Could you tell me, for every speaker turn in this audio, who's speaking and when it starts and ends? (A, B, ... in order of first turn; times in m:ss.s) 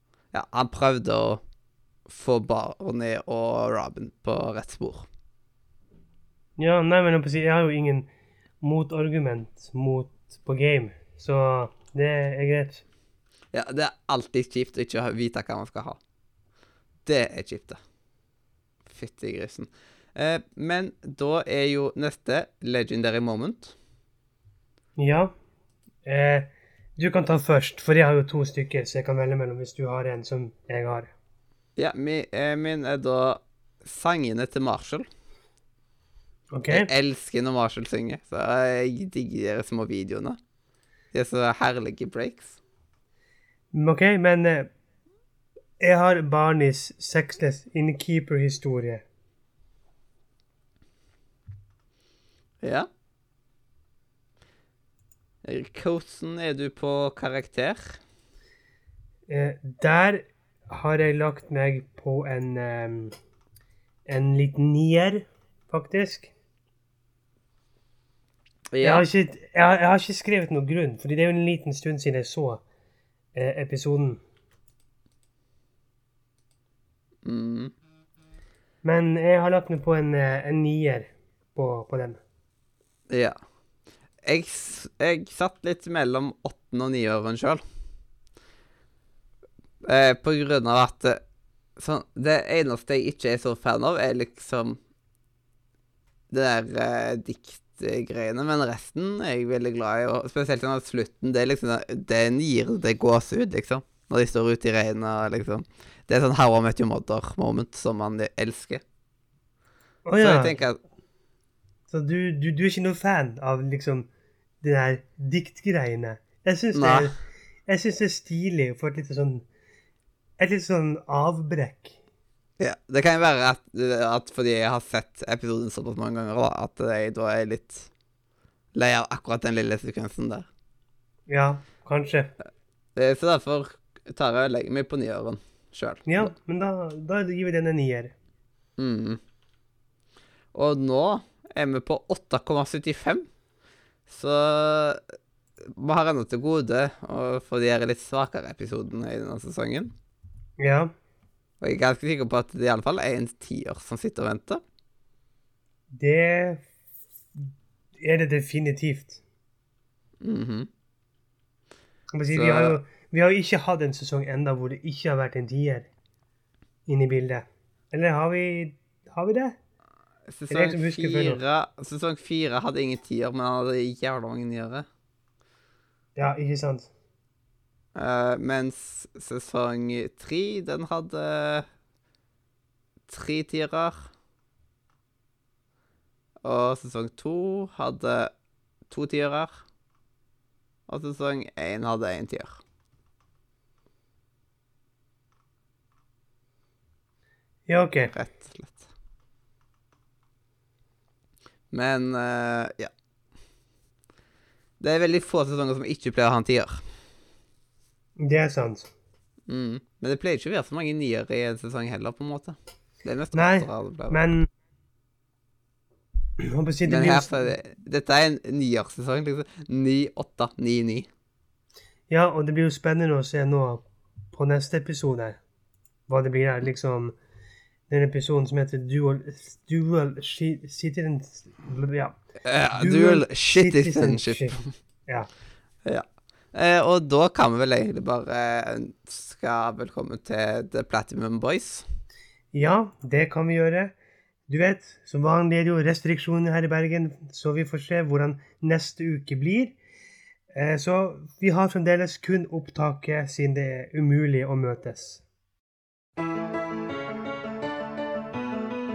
0:00.3-0:01.4 A
0:02.1-0:05.1 A
0:06.6-0:08.1 B
0:08.6-0:12.8 B
0:13.5-0:16.0 A
0:17.0-0:17.8 A
0:18.9-0:23.8 A
0:25.0-0:25.3 B
0:26.0-0:31.1 B
0:31.8-0:35.1 A
0:36.5-0:36.9 B
0:36.7-0:40.4 A
0:41.1-0:42.6 A
0:43.7-0:44.7 B
0:45.8-0:49.0 B
0:52.6-0:52.9 A
0:55.4-0:58.0 A
0:59.3-1:03.2 B
1:04.1-1:06.3 B
1:08.7-1:09.1 A
1:08.8-1:12.6 B
1:13.4-1:14.2 B
1:17.2-1:17.7 A
1:18.8-1:22.2 B
1:23.1-1:23.4 A
1:24.2-1:27.6 A
1:29.8-1:31.2 A
1:31.8-1:34.8 A
1:36.3-1:48.8 A
1:50.0-1:50.6 B
1:50.2-1:50.8 A
1:51.9-1:54.1 B
1:54.6-1:59.4 B
1:56.8-1:57.2 A
2:00.4-2:02.0 B
2:02.6-2:07.9 A
2:08.8-2:10.5 A
2:11.3-2:12.3 B
2:13.0-2:16.3 A
2:16.1-2:18.2 B
2:18.8-2:19.2 A
2:20.5-2:23.3 A
2:24.1-2:29.9 A
2:30.6-2:30.9 B
2:31.6-2:34.6 A
2:35.9-2:36.7 B
2:38.0-2:39.2 B
2:40.2-2:40.7 A
2:42.1-2:45.9 B
2:42.3-2:42.8 A
2:46.9-2:49.6 B
2:50.3-2:54.9 A
2:50.5-2:51.4 B
2:56.2-2:56.9 B
2:58.0-3:01.7 A
3:03.1-3:04.1 A
3:06.4-3:08.3 A
3:08.9-3:09.6 A
3:10.9-3:12.6 A
3:17.7-3:18.1 B
3:18.1-3:18.9 A
3:21.7-3:22.9 A
3:24.8-3:26.8 A
3:28.2-3:28.9 B
3:29.5-3:34.2 A
3:33.3-3:34.5 B
3:36.4-3:37.5 B
3:36.9-3:41.1 A
3:42.1-3:45.4 B
3:46.1-3:47.2 B
3:47.9-3:52.2 B
3:52.4-3:54.7 A
3:52.8-3:55.3 B
3:55.8-4:01.9 A
4:02.5-4:03.9 B
4:04.5-4:09.8 B
4:10.5-4:15.2 B